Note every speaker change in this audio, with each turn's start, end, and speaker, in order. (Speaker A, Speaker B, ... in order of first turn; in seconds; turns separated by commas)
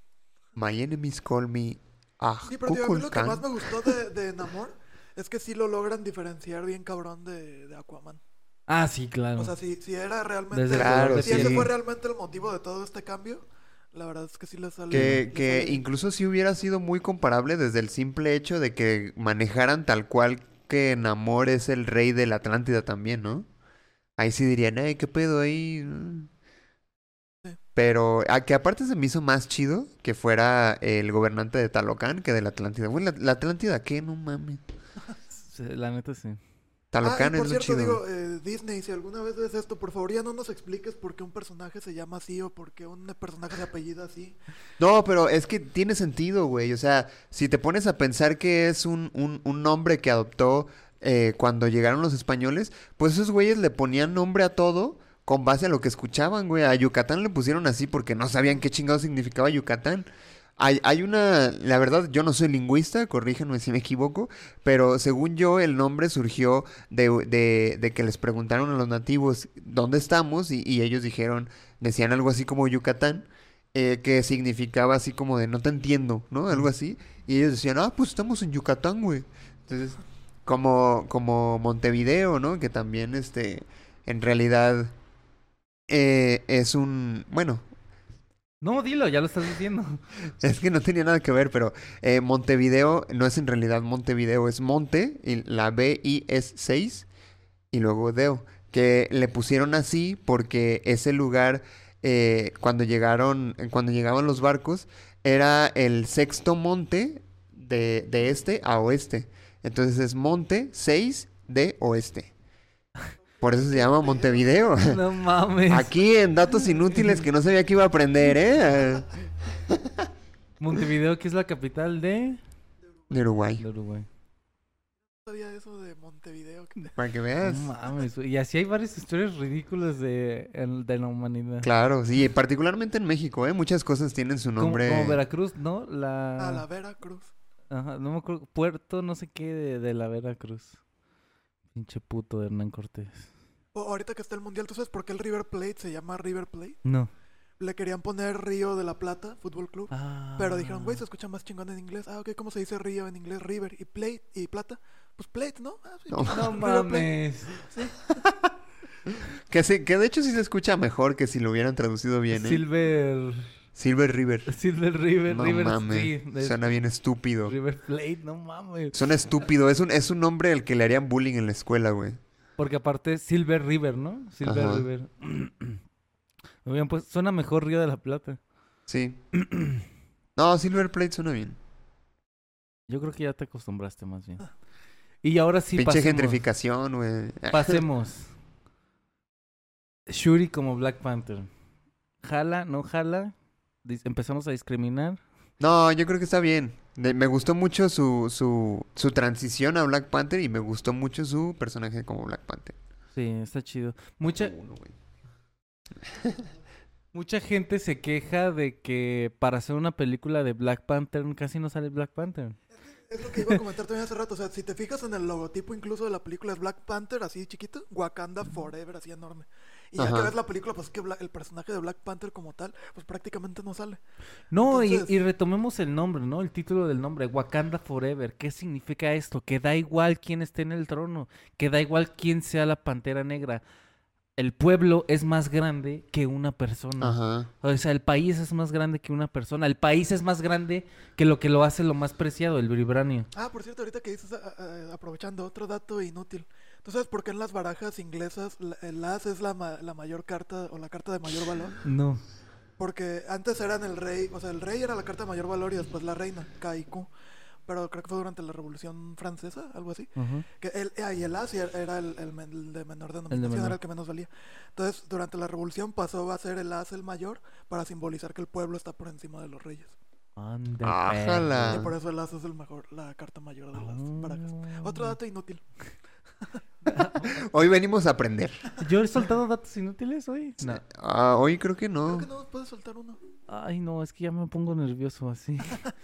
Speaker A: 0.6-3.9, Speaker B: 2.5-8.2, Speaker C: 8.7-9.5, Speaker B: 9.4-15.8, Speaker C: 10.5-11.7, Speaker A: 10.7-11.7, Speaker A: 14.9-23.5, Speaker C: 14.9-15.2, Speaker A: 24.2-26.3, Speaker A: 27.8-34.6, Speaker C: 35.4-36.4, Speaker A: 36.9-38.0, Speaker B: 37.0-44.4, Speaker A: 44.8-84.9, Speaker A: 85.9-87.7, Speaker C: 88.6-90.0, Speaker A: 90.4-97.1, Speaker A: 97.7-112.3, Speaker A: 113.4-115.0, Speaker C: 114.8-115.9, Speaker A: 115.7-119.1, Speaker C: 116.9-117.2, Speaker A: 119.7-120.0, Speaker C: 120.6-122.4, Speaker A: 123.1-123.6, Speaker C: 123.6-124.1, Speaker B: 125.2-127.0, Speaker A: 127.0-127.7, Speaker C: 127.4-131.7, Speaker A: 131.6-135.2, Speaker C: 134.6-136.6, Speaker B: 136.4-137.3, Speaker C: 137.7-140.8, Speaker C: 141.7-143.3, Speaker B: 143.7-146.8, Speaker C: 146.8-147.1, Speaker B: 147.6-158.1, Speaker C: 149.9-151.0, Speaker A: 156.1-156.5, Speaker C: 156.3-157.5, Speaker A: 159.5-162.6, Speaker C: 162.3-163.5, Speaker A: 163.8-164.5, Speaker C: 164.5-166.7, Speaker A: 165.3-167.5, Speaker C: 167.4-169.0, Speaker A: 168.9-172.2, Speaker C: 172.6-175.8, Speaker A: 174.4-174.8, Speaker C: 176.6-178.4, Speaker A: 178.9-179.2, Speaker C: 179.3-179.8, Speaker A: 180.4-181.6, Speaker C: 182.9-184.5, Speaker C: 185.2-186.4, Speaker A: 185.8-187.8, Speaker C: 187.5-188.3, Speaker C: 190.1-191.5, Speaker C: 192.2-195.2, Speaker A: 195.6-202.8, Speaker C: 203.1-204.5, Speaker A: 204.3-204.9, Speaker A: 206.1-206.5, Speaker C: 207.1-212.6, Speaker B: 212.9-224.0, Speaker A: 220.0-220.3, Speaker C: 224.5-233.6, Speaker B: 224.6-225.1, Speaker C: 234.4-243.3, Speaker A: 237.0-237.5, Speaker B: 243.3-251.8, Speaker C: 251.8-252.2, Speaker B: 252.8-257.1, Speaker B: 257.6-269.9, Speaker C: 260.2-260.4, Speaker C: 263.3-263.8, Speaker C: 270.4-271.9, Speaker A: 270.8-271.9, Speaker B: 271.7-275.6, Speaker C: 273.8-275.1, Speaker B: 276.4-276.9, Speaker C: 276.9-277.4, Speaker A: 277.4-278.7, Speaker C: 278.8-280.8, Speaker A: 280.6-282.3, Speaker B: 282.0-283.2, Speaker C: 283.5-285.8